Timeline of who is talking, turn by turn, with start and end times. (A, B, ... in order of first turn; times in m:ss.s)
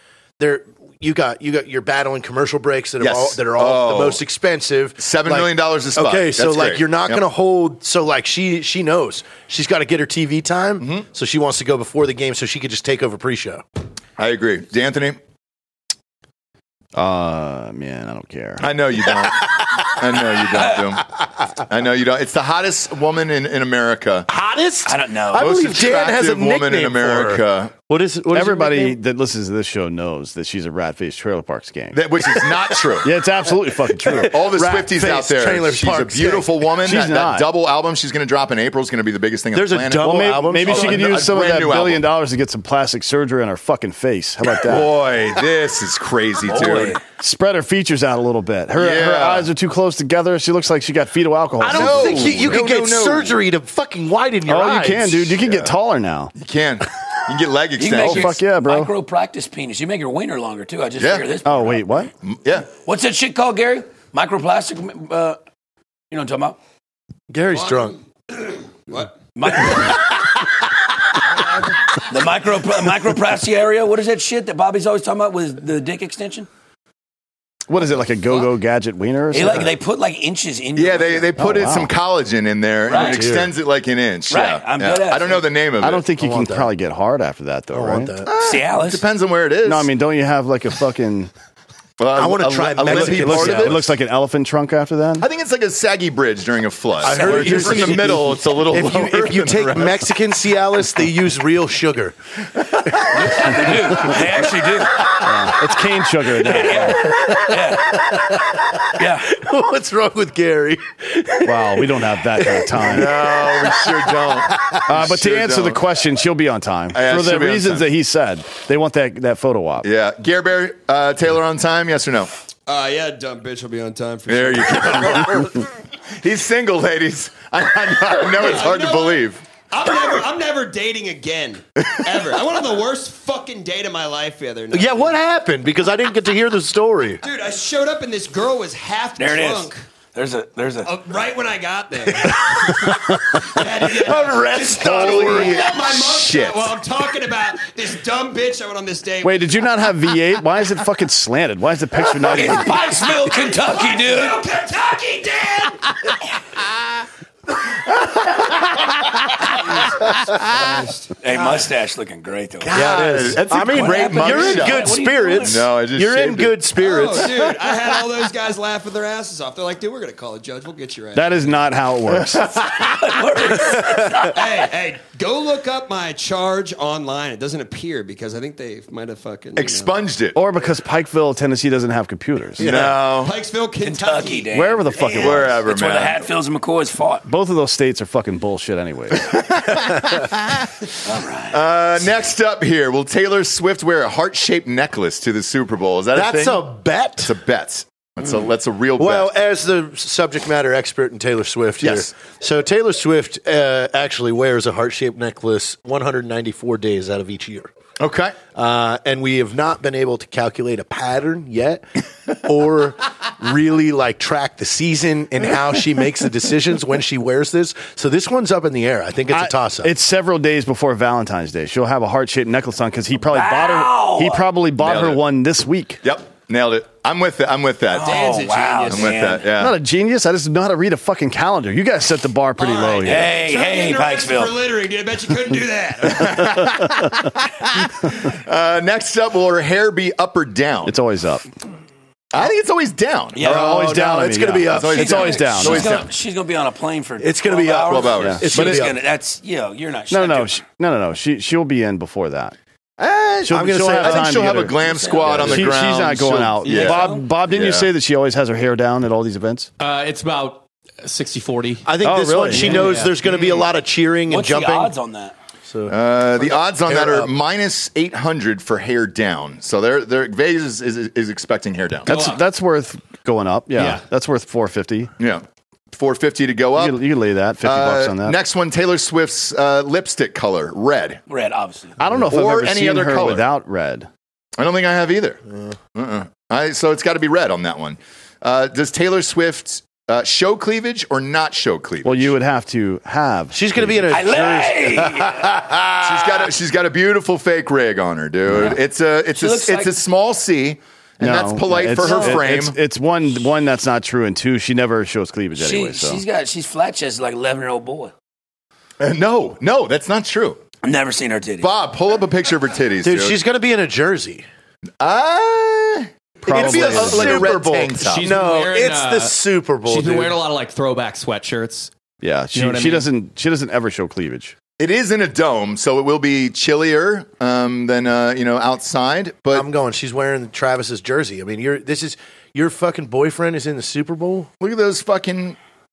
0:00.4-0:13.6 A
0:03.0-0:04.2 B
0:05.0-0:07.2 B
0:10.8-0:11.1 B
0:14.2-0:15.2 B
0:17.0-0:18.7 C
0:18.6-0:21.1 B
0:21.6-0:24.3 B
0:24.3-0:29.0 A
0:24.9-0:25.5 D
0:25.4-0:27.7 B
0:28.3-0:32.0 C
0:31.9-0:33.1 B
0:33.0-0:34.9 C
0:34.0-0:36.5 A
0:34.2-0:42.1 B
0:36.8-0:37.5 C
0:39.5-0:41.3 A
0:40.0-0:44.9 C
0:44.6-0:47.0 B
0:46.5-0:47.0 D
0:47.2-0:52.5 C
0:48.8-0:49.5 B
0:51.6-0:55.4 A
0:51.7-0:53.4 B
0:54.5-0:56.3 C
0:55.4-0:55.8 B
0:56.4-0:58.4 B
0:57.8-1:01.8 D
0:58.0-0:58.9 C
1:01.0-1:01.3 B
1:01.4-1:02.1 C
1:02.2-1:02.7 B
1:02.8-1:05.4 D
1:06.1-1:06.6 D
1:07.3-1:08.0 A
1:07.5-1:09.2 E
1:09.4-1:10.4 D
1:11.3-1:11.8 E
1:11.9-1:16.5 D
1:17.7-1:19.7 C
1:19.3-1:21.3 D
1:20.8-1:26.1 B
1:21.4-1:21.9 C
1:22.9-1:23.3 D
1:22.9-1:23.5 A
1:24.3-1:25.4 D
1:25.8-1:28.1 C
1:26.2-1:26.7 A
1:27.7-1:28.3 A
1:28.2-1:29.9 B
1:28.4-1:29.0 D
1:29.6-1:31.3 C
1:32.0-1:33.8 B
1:32.2-1:33.9 A
1:32.9-1:35.3 C
1:35.2-1:40.1 B
1:37.0-1:42.2 A
1:37.0-1:38.1 D
1:42.9-1:44.4 A
1:43.1-1:45.1 D
1:45.0-1:45.5 A
1:45.2-1:47.1 C
1:46.4-1:48.3 D
1:46.5-1:54.6 A
1:49.0-1:49.3 D
1:51.4-1:53.1 C
1:52.8-1:55.8 B
1:54.9-1:59.9 C
1:56.9-1:57.9 B
1:59.8-2:02.3 B
2:02.7-2:05.6 E
2:04.3-2:05.7 B
2:06.2-2:09.4 B
2:08.3-2:15.2 E
2:14.7-2:17.2 A
2:17.2-2:19.8 E
2:19.2-2:20.9 D
2:20.8-2:29.6 E
2:22.2-2:23.0 A
2:23.6-2:25.7 A
2:25.0-2:26.8 B
2:29.2-2:32.8 C
2:32.2-2:34.4 D
2:32.9-2:36.0 E
2:38.0-2:38.7 B
2:40.6-2:41.6 E
2:41.2-2:42.8 D
2:42.6-2:46.6 B
2:42.7-2:47.7 A
2:43.6-2:45.6 D
2:46.8-2:51.6 E
2:51.1-2:52.4 C
2:52.1-2:53.0 B
2:52.8-2:54.4 D
2:54.3-2:59.9 E
2:59.6-3:00.4 B
3:00.4-3:02.6 C
3:02.6-3:03.0 A
3:02.6-3:03.3 B
3:03.2-3:05.4 E
3:03.8-3:07.3 D
3:04.5-3:05.6 C
3:05.2-3:06.2 B
3:07.3-3:09.4 C
3:09.2-3:10.9 B
3:11.0-3:11.6 D
3:11.5-3:16.7 B
3:16.1-3:17.3 A
3:17.2-3:19.3 B
3:19.0-3:27.7 A
3:21.8-3:22.1 B
3:28.0-3:28.4 B
3:28.6-3:39.9 A
3:39.3-3:46.0 C
3:43.3-3:44.4 D
3:44.8-3:45.2 B
3:46.0-3:48.2 B
3:47.9-3:49.5 D
3:48.0-3:49.4 E
3:48.9-3:49.8 B
3:49.6-3:53.3 C
3:52.6-3:56.7 E
3:53.0-3:54.6 D
3:56.1-4:01.0 B
4:00.9-4:01.5 C
4:02.3-4:03.5 B
4:03.4-4:03.6 D
4:03.4-4:05.5 A
4:03.4-4:05.9 C
4:04.7-4:06.1 B
4:05.0-4:10.6 D
4:07.2-4:09.0 A
4:07.8-4:08.8 B
4:08.2-4:08.4 C
4:10.1-4:12.6 C
4:13.0-4:17.9 B
4:13.5-4:14.8 C
4:13.5-4:14.6 A
4:14.8-4:15.7 D
4:15.3-4:15.5 A
4:15.4-4:19.7 C
4:16.6-4:17.2 D
4:19.8-4:21.9 F
4:21.8-4:24.9 A
4:22.0-4:23.0 C
4:22.5-4:23.2 F
4:24.3-4:25.4 D
4:25.7-4:27.3 A
4:25.9-4:32.1 B
4:32.1-4:35.1 C
4:32.1-4:32.4 F
4:33.8-4:34.0 F
4:35.2-4:37.1 B
4:36.8-4:38.4 C
4:37.6-4:41.2 B
4:41.3-4:42.0 D
4:42.0-4:44.1 C
4:42.3-4:43.5 B
4:44.6-4:45.4 B
4:45.9-4:52.3 B
4:52.0-4:54.1 C
4:53.5-4:56.3 A
4:54.1-4:55.5 D
4:56.0-5:02.8 B
4:59.4-4:59.9 D
5:01.2-5:06.2 C
5:02.0-5:02.4 D
5:05.6-5:08.1 D
5:09.0-5:10.6 B
5:10.8-5:11.7 D
5:11.6-5:13.4 B
5:13.0-5:14.4 A
5:15.0-5:18.3 B
5:16.4-5:17.6 C
5:16.5-5:20.4 A
5:18.0-5:21.9 F
5:22.2-5:24.6 C
5:22.5-5:23.1 F
5:24.8-5:29.7 B
5:29.5-5:34.5 A
5:34.6-5:35.6 B